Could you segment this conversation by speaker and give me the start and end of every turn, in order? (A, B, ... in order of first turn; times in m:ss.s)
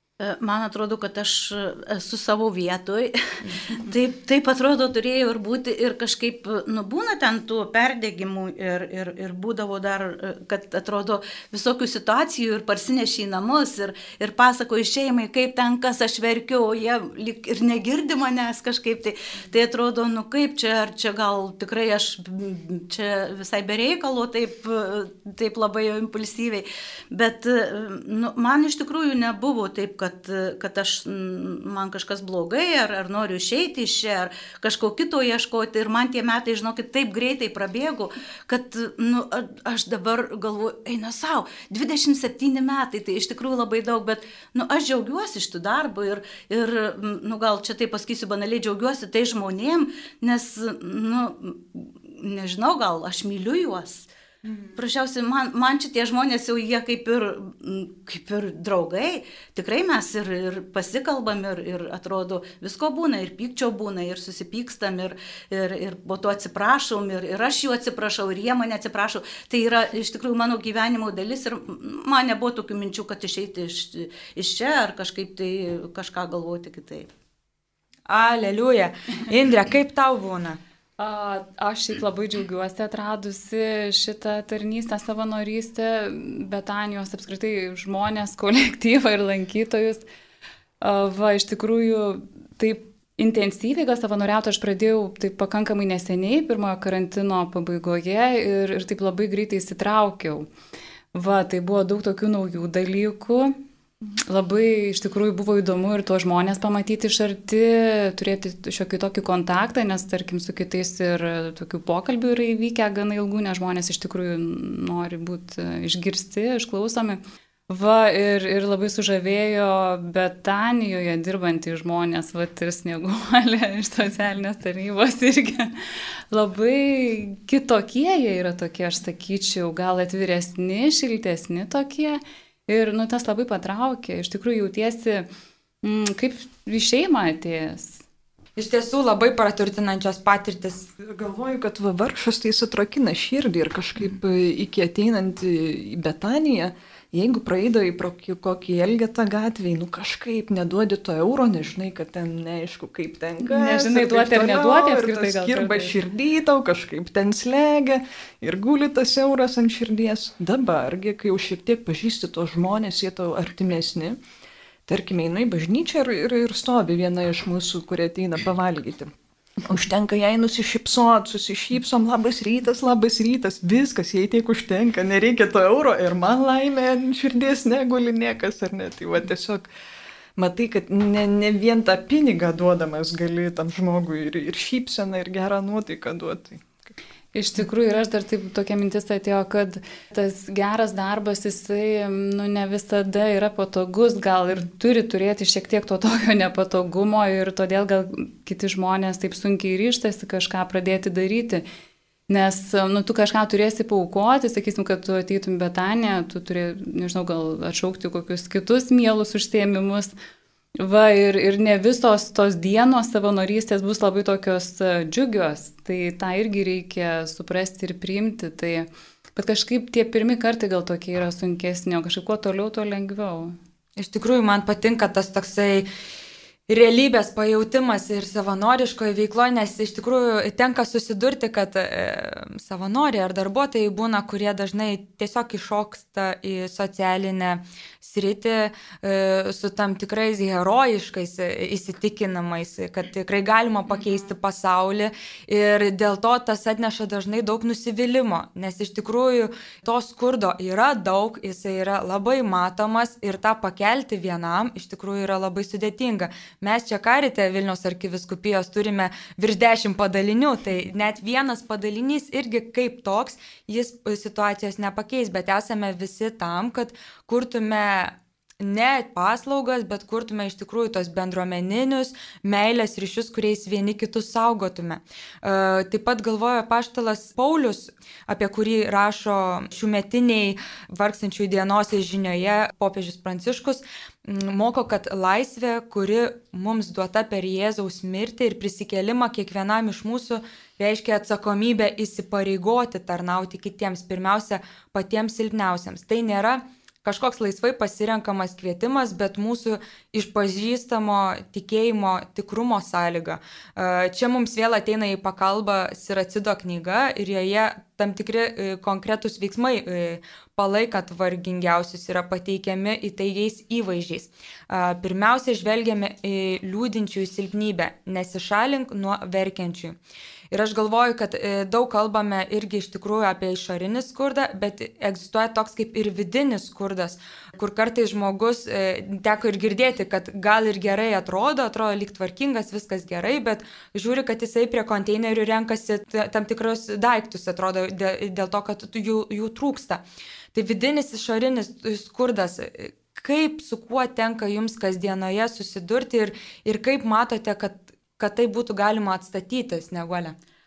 0:00.2-0:03.2 A
0:03.4-0:03.8 B
0:03.8-0:54.1 A
0:54.4-0:54.7 B
0:54.8-1:17.1 A
1:18.1-1:20.6 B
1:21.0-1:30.0 C
1:30.8-1:40.5 C
1:41.1-1:43.6 C
1:44.3-2:15.3 C
2:15.8-2:18.0 C
2:18.6-2:20.9 B
2:21.0-2:44.2 D
2:33.4-2:35.9 C
2:44.9-2:49.1 D
2:49.6-2:59.7 D
3:00.4-3:07.0 D
3:07.3-3:21.6 C
3:22.3-3:30.1 C
3:30.8-3:43.6 C
3:44.0-3:45.9 B
3:46.7-5:20.0 B
5:20.5-5:40.0 B
5:40.5-5:50.3 B